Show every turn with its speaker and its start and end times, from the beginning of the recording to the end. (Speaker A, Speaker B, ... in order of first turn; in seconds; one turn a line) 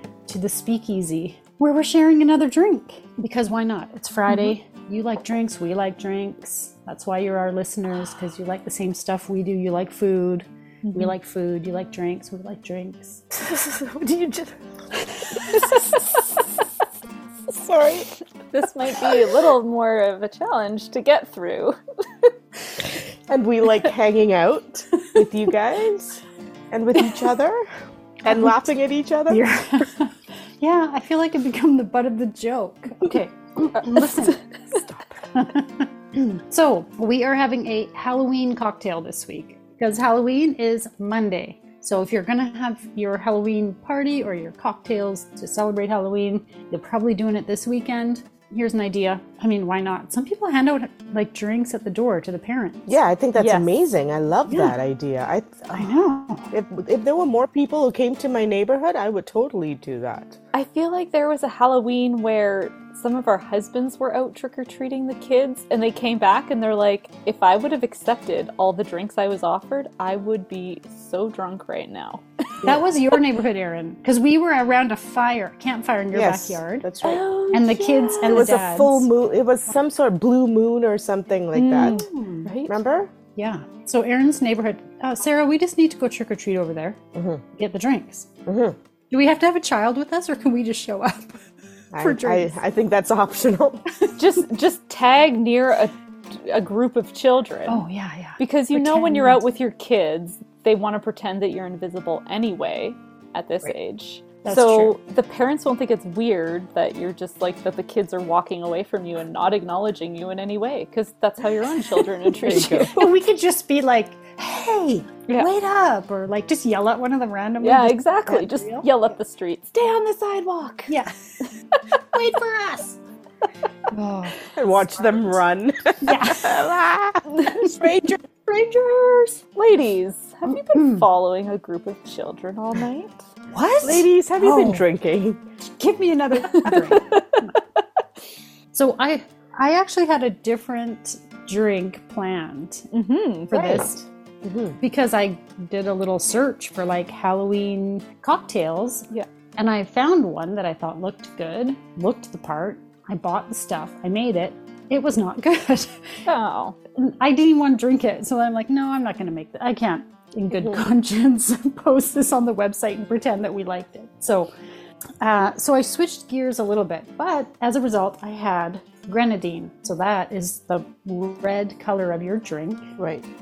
Speaker A: 0.3-13.2
Speaker B: 4.3-4.5
Speaker B: 10.8-11.2
Speaker C: 13.3-14.6
Speaker C: 17.5-18.1
Speaker B: 18.5-22.3
Speaker C: 23.3-27.7
Speaker C: 28.2-29.4
Speaker A: 29.3-34.4
Speaker B: 33.8-34.4
Speaker A: 35.3-53.0
Speaker C: 52.9-55.9
Speaker B: 53.4-53.7
Speaker A: 54.5-54.8
Speaker A: 55.7-56.5
Speaker C: 56.5-60.4
Speaker B: 60.5-72.2
Speaker A: 72.6-76.9
Speaker C: 76.1-77.4
Speaker B: 77.0-78.4
Speaker A: 77.5-79.1
Speaker C: 78.2-82.0
Speaker B: 81.5-82.8
Speaker A: 81.7-82.5
Speaker C: 82.7-83.1
Speaker A: 83.3-87.0
Speaker C: 87.2-87.4
Speaker A: 87.5-88.3
Speaker C: 88.5-88.8
Speaker A: 89.1-91.4
Speaker C: 91.9-93.9
Speaker A: 92.0-92.6
Speaker B: 94.2-97.8
Speaker A: 97.7-99.4
Speaker B: 98.4-112.9
Speaker A: 104.5-105.0
Speaker C: 112.4-112.9
Speaker A: 112.8-118.9
Speaker B: 117.6-121.5
Speaker A: 120.9-121.4
Speaker A: 122.1-123.0
Speaker A: 123.9-124.4
Speaker C: 124.5-128.2
Speaker A: 126.0-126.8
Speaker B: 127.4-127.7
Speaker B: 128.4-133.2
Speaker A: 130.7-131.1
Speaker A: 133.5-134.8
Speaker C: 133.8-135.4
Speaker A: 135.8-137.6
Speaker B: 136.6-137.4
Speaker A: 138.7-142.9
Speaker B: 142.9-143.8
Speaker A: 143.5-144.1
Speaker C: 143.5-144.8
Speaker A: 144.8-156.2
Speaker B: 156.3-156.8
Speaker A: 156.9-164.5
Speaker C: 160.5-160.9
Speaker A: 165.2-172.9
Speaker C: 173.0-173.3